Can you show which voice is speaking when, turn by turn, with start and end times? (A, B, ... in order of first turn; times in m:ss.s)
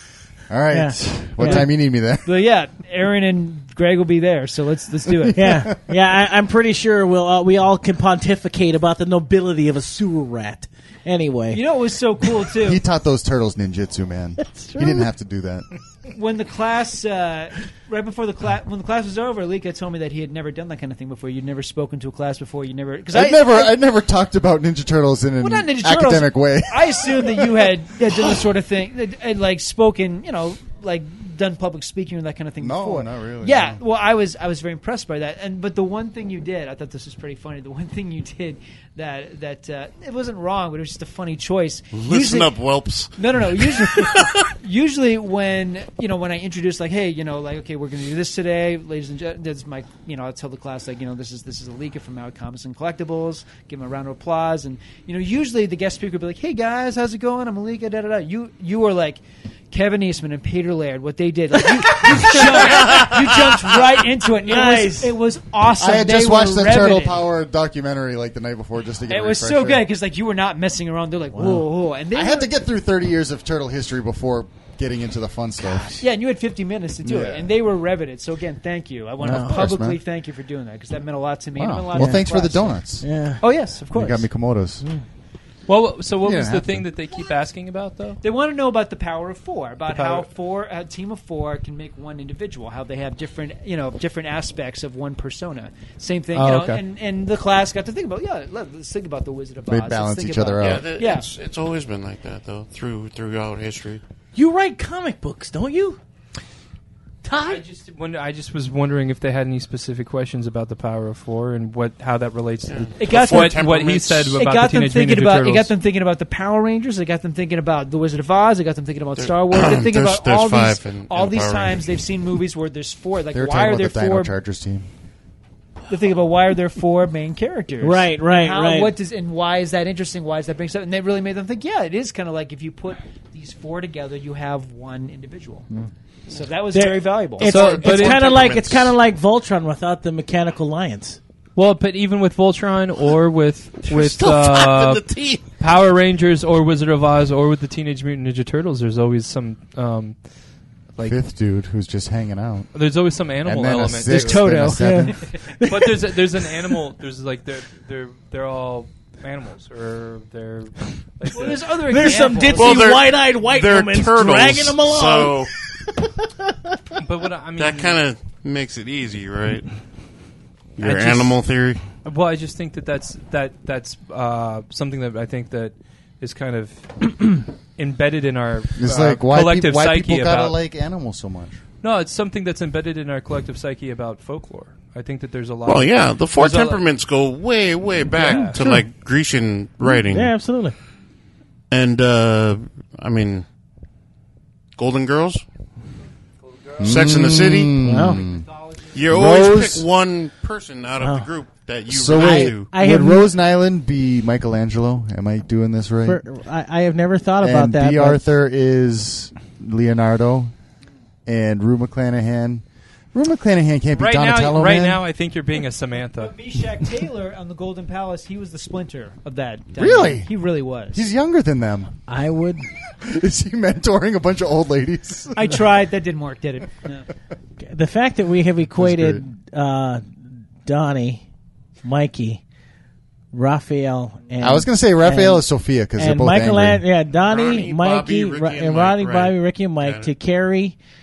0:00.5-0:02.4 A
0:00.7-0:01.7 B
0:01.4-0:01.7 C
0:02.2-0:05.6 C
0:05.1-0:05.8 A
0:05.3-0:11.6 B
0:11.5-0:12.8 C
0:12.5-0:15.7 A
0:14.4-0:15.1 B
0:16.1-0:23.8 C
0:23.1-0:28.2 A
0:25.4-0:42.6 C
0:32.6-0:33.8 A
0:41.9-0:44.5 D
0:43.2-1:07.2 C
1:02.1-1:02.4 B
1:02.7-1:03.2 D
1:04.4-1:05.2 B
1:05.7-1:09.9 A
1:09.1-1:12.5 C
1:11.3-1:11.7 B
1:12.1-1:15.9 A
1:15.7-1:16.0 B
1:16.0-1:22.8 C
1:17.0-1:17.5 A
1:19.2-1:20.0 A
1:19.2-1:19.6 B
1:21.6-1:23.1 A
1:21.9-1:22.2 B
1:23.0-1:23.4 B
1:23.4-1:24.2 C
1:23.9-1:24.8 A
1:25.7-1:28.2 E
1:26.2-1:26.9 A
1:28.2-1:41.3 C
1:29.9-1:30.3 E
1:36.3-1:36.8 E
1:39.7-1:40.9 A
1:40.6-1:44.0 D
1:44.4-1:46.0 B
1:47.2-1:47.6 B
1:47.4-1:55.7 E
1:52.7-1:54.4 D
1:53.0-1:53.7 C
1:54.4-2:04.3 C
1:59.2-2:01.8 D
2:03.3-2:04.9 A
2:05.9-2:15.7 C
2:07.8-2:08.9 B
2:16.3-2:17.6 C
2:16.7-2:21.2 B
2:17.4-2:18.9 D
2:17.4-2:18.3 E
2:21.6-2:25.1 E
2:23.9-2:25.5 D
2:25.6-2:30.2 E
2:31.0-2:32.7 A
2:32.7-2:34.6 E
2:33.4-2:35.2 A
2:34.1-2:35.3 C
2:34.8-2:36.0 B
2:35.6-2:42.2 E
2:41.3-2:43.0 C
2:41.9-2:46.8 B
2:42.5-2:45.5 D
2:47.0-2:48.0 E
2:47.6-2:49.7 D
2:50.8-2:51.8 D
2:50.8-2:51.2 E
2:52.0-3:00.6 E
2:58.8-3:01.6 A
3:01.8-3:06.8 E
3:05.6-3:10.3 D
3:08.1-3:08.6 E
3:08.3-3:08.8 B
3:09.8-3:10.8 B
3:11.7-3:13.4 D
3:14.8-3:15.4 D
3:16.4-3:17.2 E
3:16.8-3:18.4 A
3:16.8-3:17.8 D
3:17.8-3:18.2 B
3:18.2-3:18.9 C
3:18.9-3:22.7 D
3:19.0-3:19.9 A
3:21.0-3:21.3 B
3:21.9-3:26.2 A
3:22.2-3:23.3 B
3:26.0-3:28.3 B
3:27.4-3:30.5 A
3:31.3-3:35.0 A
3:33.9-3:36.3 E
3:36.2-3:41.1 C
3:39.8-3:40.3 A
3:40.9-3:41.9 A
3:42.1-3:42.7 B
3:43.0-3:45.6 A
3:45.4-3:47.1 C
3:47.6-3:50.0 B
3:48.7-3:49.2 A
3:50.6-3:51.2 B
3:51.8-3:52.4 B
3:53.3-4:00.8 B
3:54.4-3:56.8 A
3:57.2-4:00.1 D